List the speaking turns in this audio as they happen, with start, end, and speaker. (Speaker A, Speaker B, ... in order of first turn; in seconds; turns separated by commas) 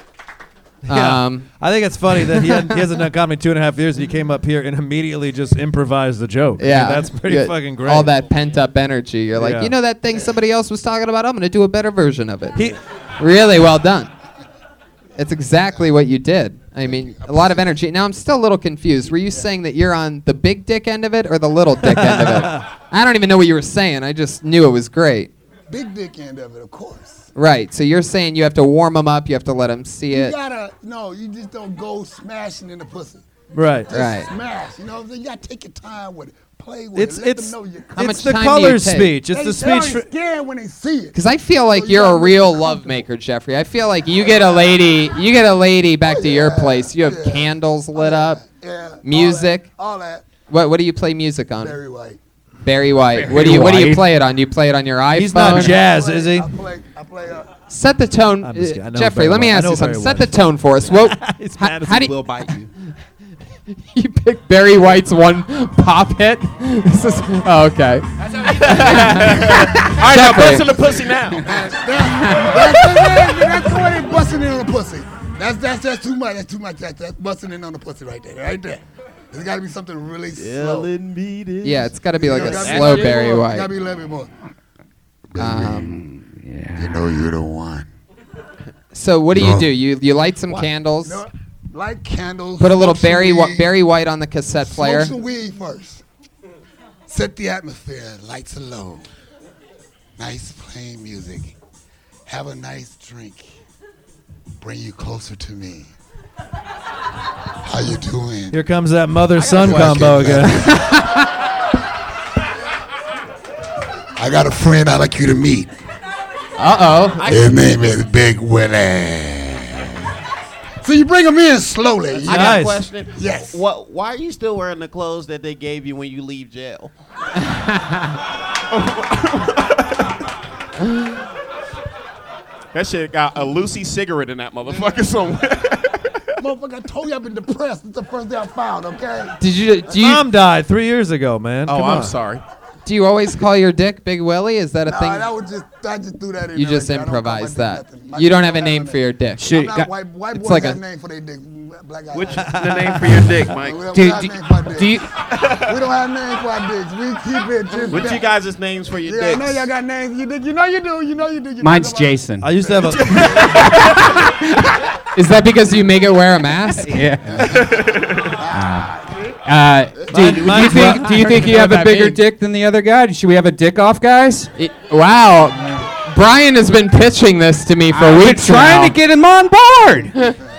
Speaker A: 0.9-8.1, Speaker B: 0.9-1.5, Speaker B: 2.1-2.8, Speaker B: 6.6-14.1, Speaker A: 9.3-9.7, Speaker B: 15.2-25.3, Speaker C: 16.8-17.8, Speaker A: 21.8-22.6, Speaker C: 25.7-27.3, Speaker B: 27.3-30.3, Speaker C: 30.1-33.2, Speaker A: 33.5-33.9, Speaker C: 33.9-38.2, Speaker B: 33.9-34.3, Speaker A: 36.9-40.0, Speaker B: 38.0-39.1, Speaker C: 39.3-41.2, Speaker B: 41.1-48.4, Speaker C: 41.7-43.0, Speaker C: 44.1-44.8, Speaker C: 46.0-50.3, Speaker B: 49.0-49.7, Speaker B: 50.5-51.8, Speaker C: 51.6-52.2, Speaker B: 52.6-55.8, Speaker D: 53.1-54.0, Speaker A: 55.1-56.5, Speaker C: 55.5-57.5, Speaker B: 57.7-62.2, Speaker A: 58.4-60.4, Speaker A: 60.9-62.1, Speaker E: 61.9-62.7, Speaker B: 63.8-68.1, Speaker C: 68.4-69.8, Speaker E: 68.4-71.5, Speaker B: 68.6-70.7, Speaker C: 70.8-80.9, Speaker B: 72.1-72.8, Speaker E: 80.3-83.3, Speaker B: 81.6-83.7, Speaker C: 82.2-84.3, Speaker C: 85.3-85.9, Speaker B: 85.4-86.0, Speaker D: 86.2-87.0, Speaker C: 86.8-87.9, Speaker B: 88.9-91.2, Speaker C: 89.3-89.6, Speaker C: 91.0-93.7, Speaker B: 92.6-95.1, Speaker C: 94.6-96.0, Speaker C: 97.1-99.1, Speaker C: 100.2-101.5, Speaker C: 102.3-103.5, Speaker C: 104.6-105.9, Speaker C: 107.6-108.6, Speaker A: 108.5-110.6, Speaker C: 109.4-111.1, Speaker E: 109.5-110.1, Speaker B: 110.6-111.2, Speaker C: 114.2-115.7, Speaker B: 116.6-117.2, Speaker E: 117.2-117.6, Speaker C: 117.2-119.9, Speaker C: 120.8-122.6, Speaker E: 122.1-126.9, Speaker A: 122.3-122.8, Speaker C: 123.1-123.6, Speaker E: 128.7-130.0, Speaker E: 132.7-136.2, Speaker C: 136.4-139.4, Speaker B: 139.4-140.2, Speaker A: 139.9-142.1, Speaker E: 141.7-142.4, Speaker B: 142.8-145.3, Speaker C: 144.8-152.6, Speaker B: 146.5-149.4, Speaker D: 149.4-149.9, Speaker B: 150.3-150.8, Speaker E: 152.1-153.9, Speaker A: 152.5-153.3, Speaker C: 153.5-155.0, Speaker D: 153.9-155.1, Speaker E: 155.3-155.8, Speaker C: 155.7-158.3, Speaker E: 157.9-159.7, Speaker C: 159.0-163.7, Speaker D: 161.6-162.5, Speaker A: 162.4-163.2, Speaker B: 163.5-167.0, Speaker D: 166.9-167.4, Speaker C: 167.3-169.3, Speaker E: 167.4-168.4, Speaker D: 168.5-174.5, Speaker C: 170.0-170.3, Speaker A: 170.1-171.6, Speaker B: 170.6-172.2, Speaker B: 174.6-178.9, Speaker D: 177.9-180.2